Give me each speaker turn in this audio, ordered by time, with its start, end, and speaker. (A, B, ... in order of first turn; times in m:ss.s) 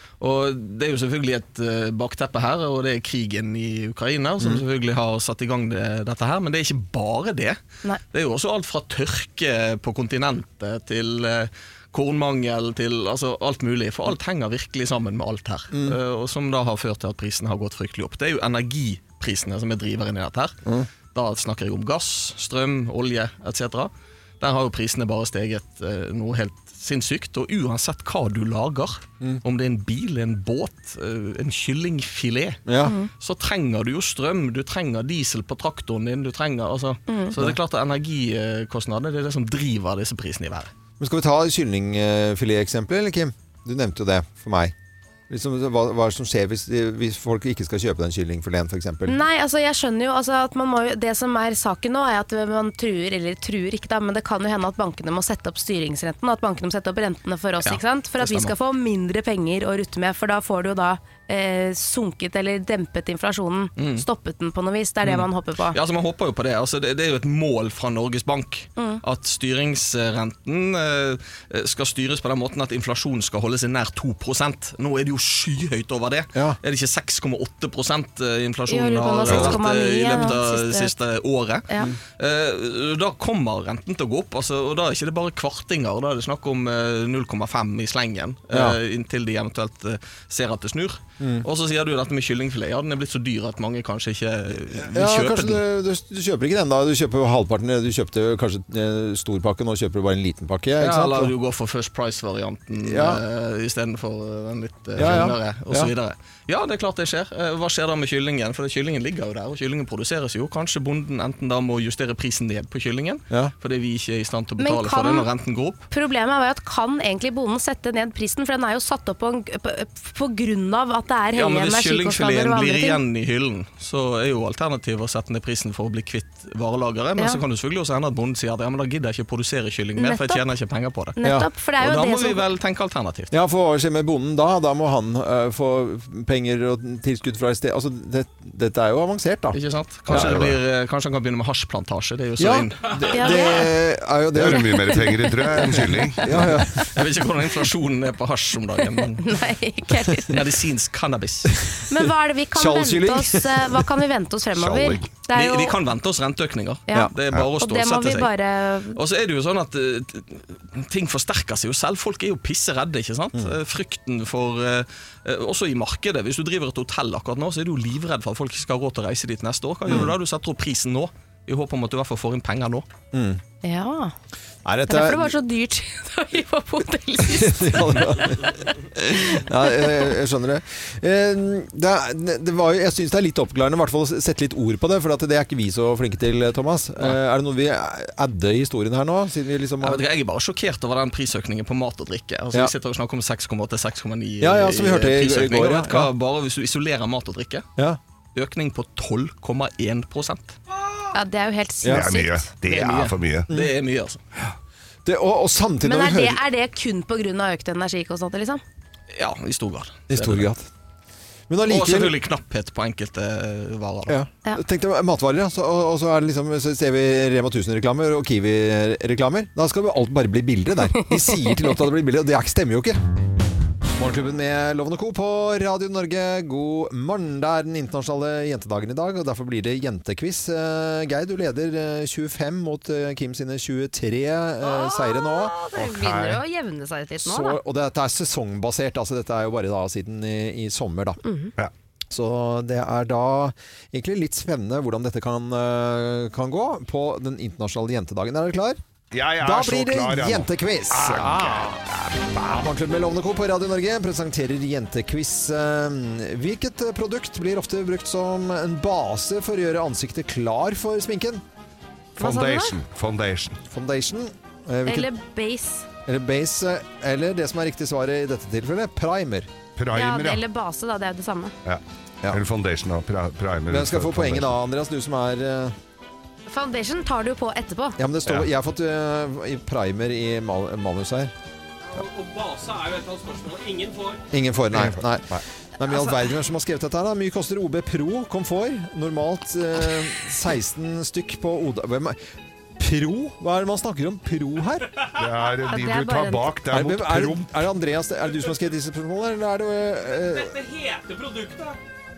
0:00.2-0:20.6 A
0:15.7-0:16.0 B
0:21.1-0:32.6 A
0:32.7-0:32.9 B
0:32.8-0:33.1 C
0:33.2-0:40.7 A
0:37.1-0:37.4 C
0:41.0-0:44.7 B
0:45.3-0:49.2 B
0:49.0-1:05.8 C
0:57.6-0:58.5 A
1:03.8-1:04.1 A
1:05.0-1:35.6 A
1:08.8-1:09.0 C
1:18.7-1:20.9 C
1:19.3-1:19.6 D
1:28.5-1:28.8 B
1:31.2-1:31.4 B
1:34.8-1:41.3 B
1:40.8-1:55.8 A
1:42.8-1:43.2 B
1:45.0-1:45.9 B
1:54.6-1:55.3 C
1:55.9-2:03.0 C
2:01.3-2:11.2 A
2:07.2-2:07.4 C
2:10.0-2:10.4 C
2:11.2-2:12.4 C
2:11.2-2:11.5 B
2:11.8-2:13.3 A
2:13.3-2:20.4 B
2:19.5-2:23.3 A
2:20.1-2:20.6 D
2:22.4-2:25.0 B
2:23.1-2:23.8 C
2:24.3-2:26.5 D
2:24.8-2:25.6 C
2:26.2-2:27.0 B
2:26.3-2:29.3 A
2:29.2-2:30.4 C
2:30.3-2:31.6 A
2:31.9-2:35.8 C
2:32.5-2:33.8 B
2:34.5-2:35.1 D
2:35.3-2:38.3 A
2:36.9-2:39.0 C
2:38.9-2:52.9 A
2:49.9-2:50.1 B
2:53.1-2:53.4 B
2:53.6-2:54.1 C
2:54.6-2:55.4 B
2:54.9-2:57.9 C
2:57.2-3:10.0 B
2:59.3-3:00.0 C
3:09.8-3:17.7 A
3:14.4-3:16.1 B
3:18.3-3:20.6 A
3:21.1-3:22.5 C
3:21.9-3:23.5 D
3:22.6-3:24.2 A
3:25.0-3:26.4 B
3:25.8-3:28.6 C
3:29.1-3:30.5 A
3:30.1-3:30.7 B
3:31.5-3:32.2 B
3:31.6-3:34.2 A
3:34.1-3:43.0 B
3:44.0-3:55.5 B
3:54.6-3:57.6 C
3:55.7-3:56.4 D
3:57.2-4:01.2 B
4:01.2-4:01.5 C
4:02.1-4:08.8 B
4:09.1-4:12.4 D
4:09.4-4:11.8 B
4:12.4-4:21.4 B
4:22.2-4:22.8 C
4:22.2-4:23.6 D
4:23.7-4:25.1 B
4:24.8-4:25.9 C
4:26.0-4:29.5 B
4:29.8-4:30.4 D
4:29.9-4:31.5 C
4:31.6-4:34.5 D
4:33.7-4:35.8 B
4:36.5-4:38.0 C
4:38.0-4:41.3 B
4:42.5-4:43.9 E
4:44.3-4:52.2 B
4:44.7-4:45.4 D
4:52.8-4:54.9 B
4:55.1-4:57.5 D
4:55.7-4:56.6 C
4:56.7-5:00.6 B
5:00.8-5:01.6 E